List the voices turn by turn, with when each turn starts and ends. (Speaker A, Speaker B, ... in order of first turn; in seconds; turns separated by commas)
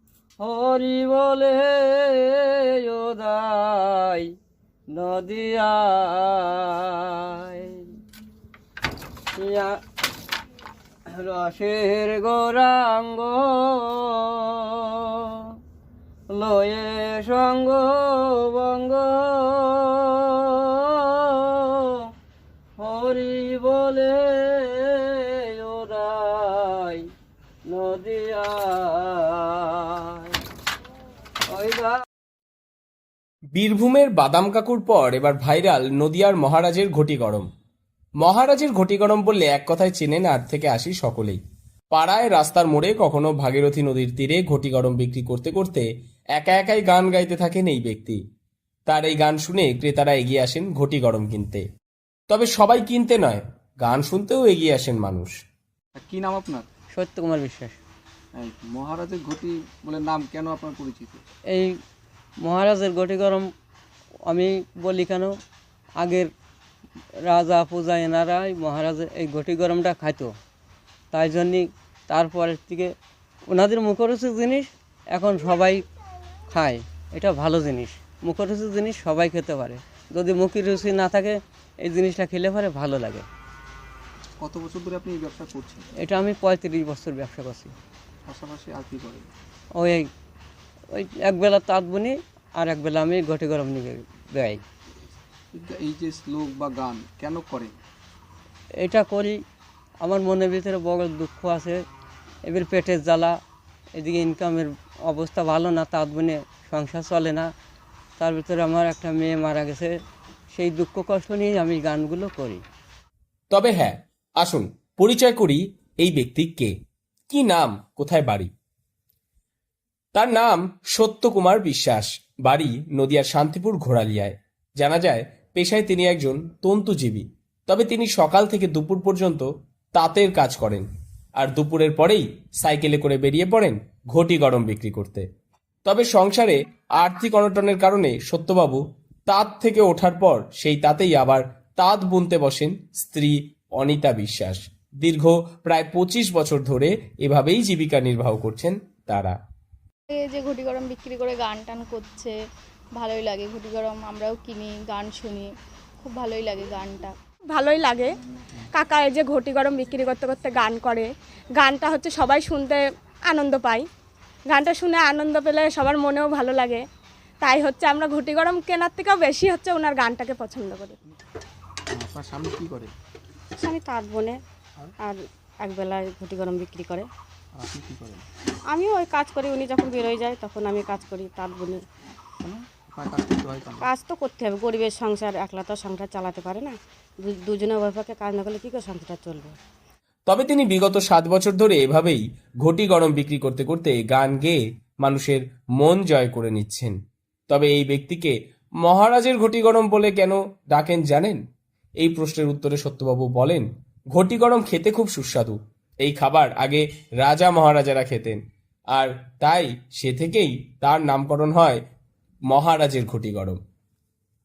Speaker A: 0.4-4.3, Speaker A: 4.9-7.9, Speaker A: 9.3-9.8, Speaker A: 11.1-15.3, Speaker A: 16.3-22.0, Speaker A: 22.8-27.0, Speaker A: 27.6-30.3, Speaker A: 31.5-31.9, Speaker B: 33.5-37.5, Speaker B: 38.2-41.4, Speaker B: 41.9-48.2, Speaker B: 48.9-51.6, Speaker B: 52.3-55.3, Speaker C: 56.0-56.6, Speaker A: 56.9-57.8, Speaker C: 58.4-61.2, Speaker A: 62.4-63.5, Speaker A: 64.3-65.3, Speaker A: 66.0-66.3, Speaker A: 67.2-70.3, Speaker A: 71.1-72.9, Speaker A: 73.5-75.8, Speaker A: 76.5-83.3, Speaker C: 84.4-85.8, Speaker A: 86.0-87.7, Speaker C: 88.3-89.3, Speaker A: 89.7-90.1, Speaker A: 90.9-94.6, Speaker C: 95.5-97.7, Speaker A: 98.8-99.4, Speaker A: 100.0-101.8, Speaker A: 102.5-103.3, Speaker A: 104.0-107.5, Speaker A: 108.2-109.9, Speaker A: 110.5-112.6, Speaker B: 113.5-116.7, Speaker B: 117.3-118.5, Speaker B: 120.1-130.8, Speaker B: 131.4-135.2, Speaker B: 135.8-149.3, Speaker D: 150.1-152.3, Speaker D: 152.9-155.5, Speaker D: 156.0-157.1, Speaker E: 157.5-158.1, Speaker E: 158.7-163.8, Speaker E: 164.5-166.8, Speaker E: 167.4-170.9, Speaker C: 171.9-172.9, Speaker F: 173.6-174.4, Speaker F: 175.0-177.1, Speaker C: 177.5-178.3, Speaker F: 178.7-181.8, Speaker C: 182.4-183.9, Speaker F: 183.8-189.6, Speaker B: 190.3-196.9, Speaker B: 197.5-201.4, Speaker B: 202.0-208.4, Speaker B: 208.9-211.8, Speaker B: 212.5-213.6